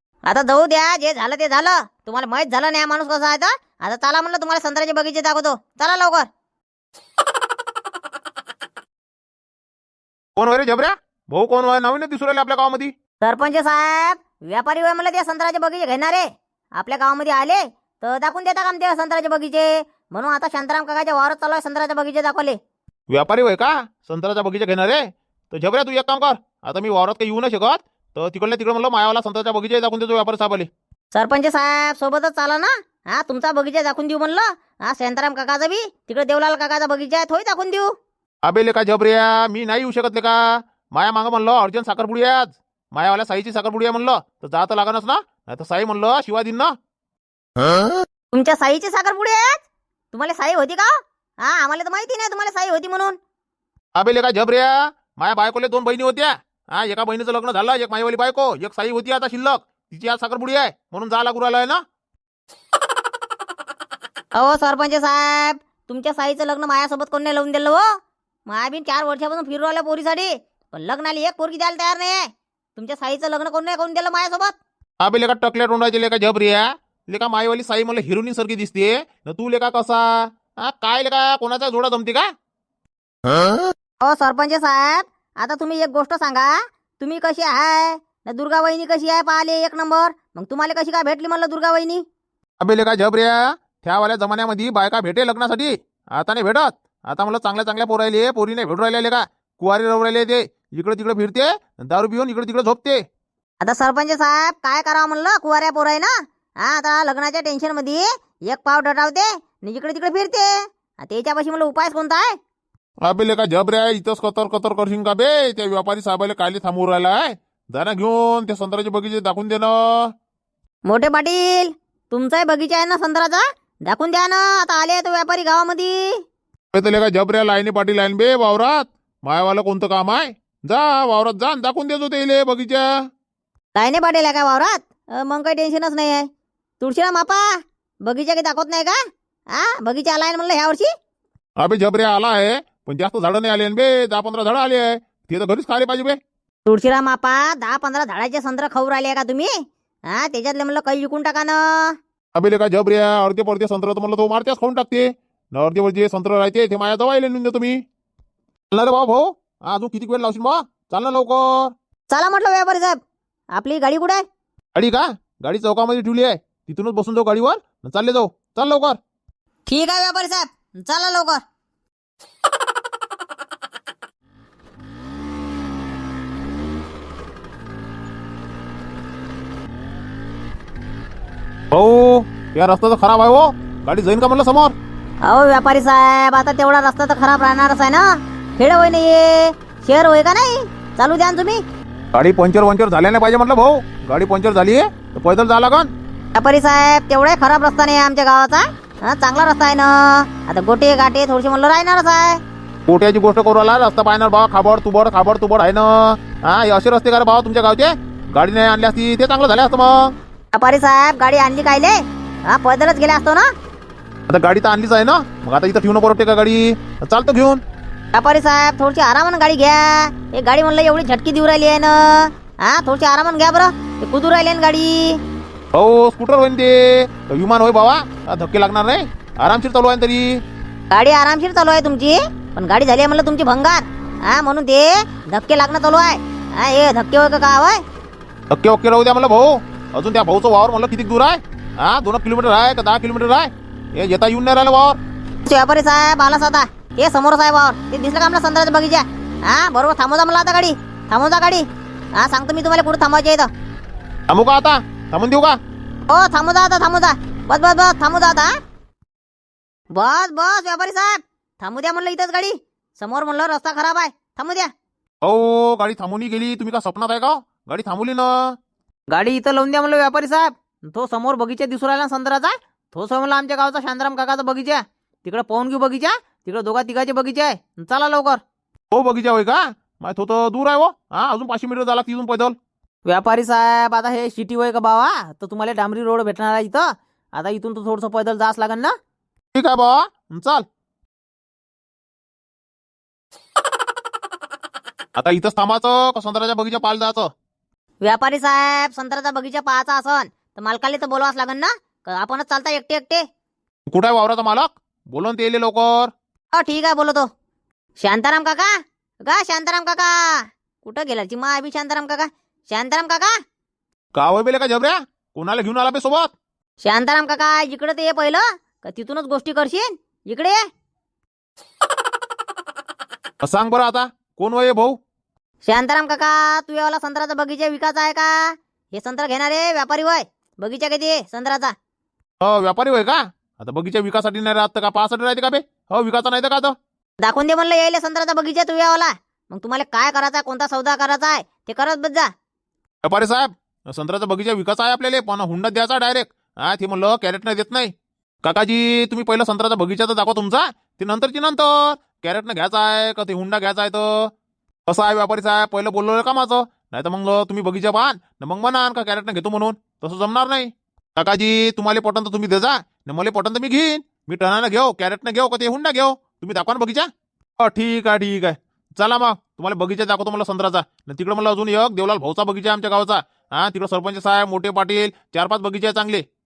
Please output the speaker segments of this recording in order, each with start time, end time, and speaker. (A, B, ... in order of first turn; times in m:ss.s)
0:00.3-0:06.3 A
0:10.4-0:12.9 B
0:13.2-0:16.3 A
0:16.8-0:22.6 A
0:23.1-0:30.7 B
0:31.1-0:37.9 A
0:38.4-0:46.7 B
0:48.3-0:49.6 A
0:50.1-0:53.2 A
0:54.0-1:01.8 B
1:04.3-1:07.8 A
1:08.5-1:14.6 A
1:15.0-1:22.3 B
1:24.0-1:32.0 A
1:32.6-1:43.0 B
1:43.6-1:46.1 A
1:46.6-1:50.5 A
1:51.0-1:52.3 A
1:53.0-2:00.1 B
2:00.8-2:06.2 A
2:06.7-2:12.9 B
2:13.7-2:16.2 A
2:16.8-2:17.4 A
2:18.0-2:19.0 A
2:19.5-2:20.9 A
2:21.6-2:26.2 B
2:26.6-2:29.5 A
2:30.1-2:32.0 A
2:32.3-2:37.8 B
2:38.7-2:41.7 B
2:42.1-2:43.0 A
2:43.5-2:44.2 A
2:44.7-2:49.0 B
2:49.7-2:51.4 A
3:01.7-3:04.7 B
3:05.2-3:11.6 A
3:12.1-3:15.9 B
3:16.3-3:22.4 A
3:22.9-3:30.1 B
3:30.5-3:33.5 A
3:34.3-3:37.6 B
3:38.1-3:45.2 A
3:45.7-3:50.4 B
3:50.9-3:57.8 A
3:58.5-4:05.0 B
4:05.4-4:13.5 A
4:14.3-4:15.6 B
4:16.1-4:18.5 A
4:19.9-4:24.7 A
4:25.2-4:28.6 B
4:29.1-4:38.4 A
4:38.9-4:42.6 B
4:43.0-4:48.9 A
4:49.5-4:50.6 B
4:55.2-4:57.3 B
4:58.0-5:03.2 A
5:03.9-5:06.1 B
5:06.5-5:07.3 A
5:08.0-5:08.7 A
5:09.2-5:13.3 A
5:14.1-5:16.3 B
5:16.8-5:20.6 A
5:23.4-5:25.0 B
5:25.6-5:31.7 A
5:32.4-5:36.7 B
5:37.2-5:42.3 A
5:43.0-5:47.9 B
5:48.4-5:54.3 B
5:54.9-6:16.2 B